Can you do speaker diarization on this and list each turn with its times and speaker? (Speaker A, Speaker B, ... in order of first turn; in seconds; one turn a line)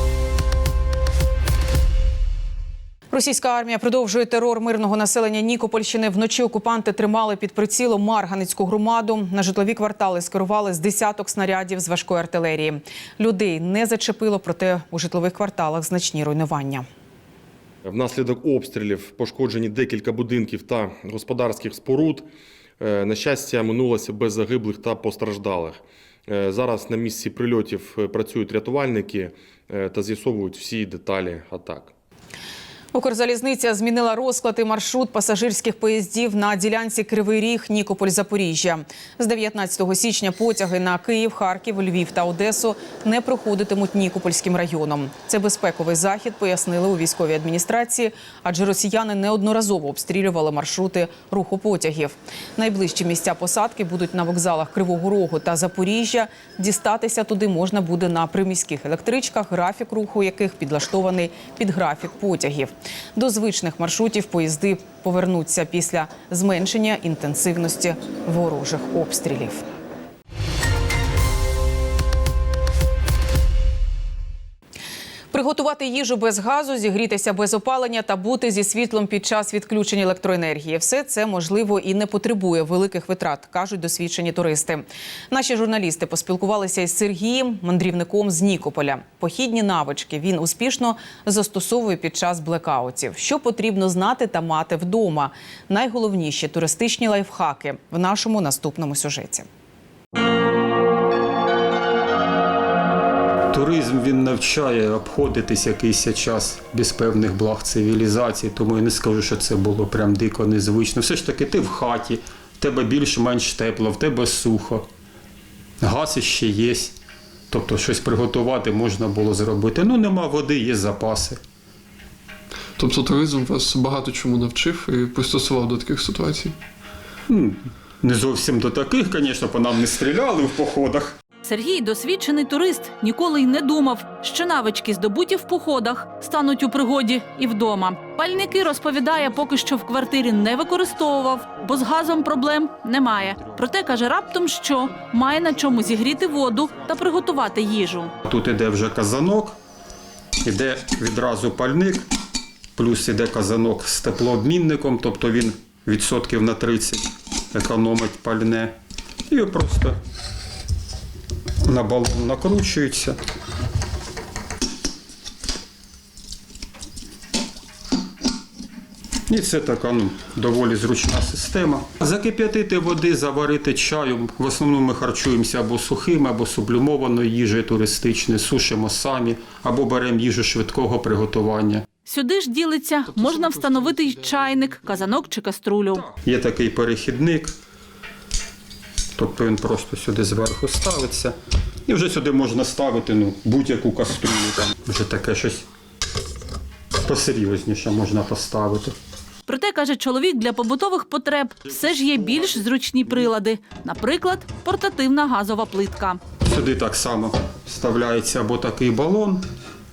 Speaker A: 3.1-16.8
Speaker B: 17.8-22.2
Speaker B: 22.8-31.9
Speaker A: 32.9-69.6
Speaker A: 75.3-99.5
Speaker C: 103.5-114.8
Speaker C: 115.8-116.9
Speaker C: 117.5-121.4
Speaker D: 122.8-126.5
Speaker C: 127.3-131.1
Speaker E: 131.4-148.1
Speaker C: 141.4-141.7
Speaker C: 145.6-146.9
Speaker C: 148.2-149.6
Speaker C: 150.4-152.0
Speaker C: 152.8-158.7
Speaker C: 159.3-160.0
Speaker C: 161.6-163.2
Speaker C: 169.3-181.8
Speaker E: 182.1-186.0
Speaker D: 183.1-185.1
Speaker C: 185.9-187.5
Speaker C: 189.2-191.3
Speaker C: 191.8-195.6
Speaker C: 197.0-198.9
Speaker E: 199.5-206.2
Speaker C: 201.7-202.6
Speaker C: 206.4-209.4